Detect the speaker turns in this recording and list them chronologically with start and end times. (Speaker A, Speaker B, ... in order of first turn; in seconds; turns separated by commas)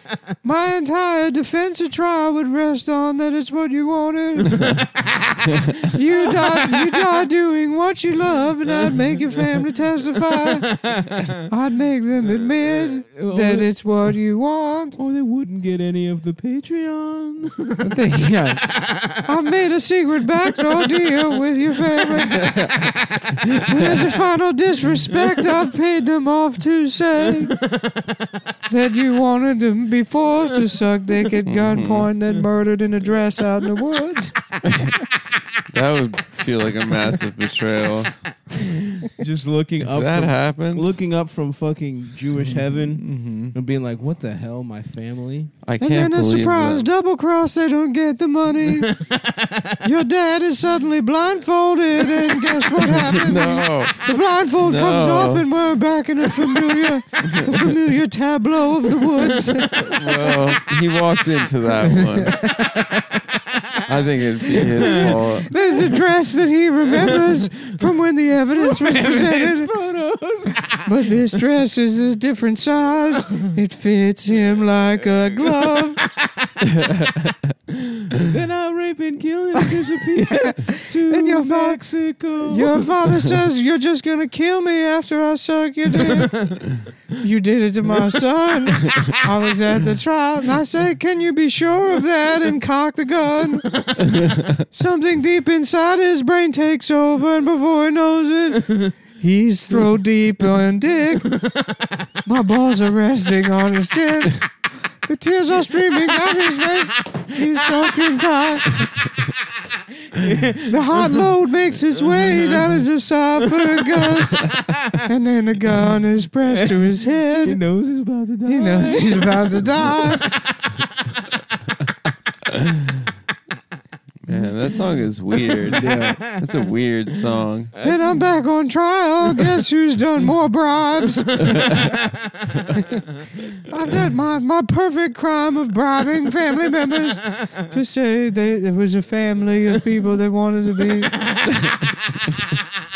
Speaker A: 0.4-4.9, Speaker B: 4.6-7.1, Speaker A: 5.8-10.7, Speaker B: 8.7-9.6, Speaker B: 10.3-11.4, Speaker A: 11.4-15.0, Speaker C: 12.2-12.9, Speaker B: 13.1-13.7, Speaker B: 15.0-18.0, Speaker A: 17.8-23.0, Speaker B: 18.6-19.2, Speaker B: 20.5-21.1, Speaker B: 21.9-24.2, Speaker A: 23.6-27.6, Speaker B: 27.6-28.4, Speaker A: 28.7-34.4, Speaker C: 31.4-32.1, Speaker C: 34.6-35.0, Speaker C: 35.7-38.1, Speaker B: 38.5-45.5, Speaker C: 39.8-41.0, Speaker A: 42.4-43.5, Speaker C: 45.6-46.9, Speaker A: 45.8-49.0, Speaker B: 48.7-49.9, Speaker A: 49.8-60.5, Speaker B: 52.1-53.3, Speaker C: 52.9-54.0, Speaker C: 54.6-55.5, Speaker C: 57.3-57.6, Speaker B: 58.9-61.5, Speaker C: 59.9-62.5, Speaker A: 61.8-62.5, Speaker B: 62.2-63.9, Speaker C: 63.8-65.5, Speaker B: 64.4-66.1, Speaker A: 64.7-69.7, Speaker B: 66.9-67.7, Speaker B: 68.5-71.4, Speaker A: 70.8-76.0, Speaker B: 75.4-77.0, Speaker C: 76.7-77.3, Speaker B: 77.9-82.9, Speaker A: 79.8-86.6, Speaker B: 86.0-86.7, Speaker A: 87.2-93.8, Speaker B: 93.7-94.2, Speaker A: 94.6-101.4, Speaker B: 98.7-98.9, Speaker B: 101.3-102.2, Speaker A: 102.2-104.5, Speaker A: 105.0-108.9, Speaker B: 106.0-106.3, Speaker B: 107.0-107.8, Speaker B: 109.3-111.3, Speaker A: 110.7-117.6, Speaker B: 112.1-112.6, Speaker B: 113.5-115.1, Speaker B: 116.5-116.8, Speaker B: 117.4-121.7, Speaker A: 118.5-120.4, Speaker C: 124.2-127.7, Speaker B: 125.4-128.2, Speaker A: 125.7-126.2, Speaker A: 127.8-131.9, Speaker B: 131.3-133.4, Speaker C: 131.4-131.8, Speaker A: 132.8-133.0, Speaker A: 133.6-141.3, Speaker B: 137.2-137.6, Speaker B: 140.8-142.6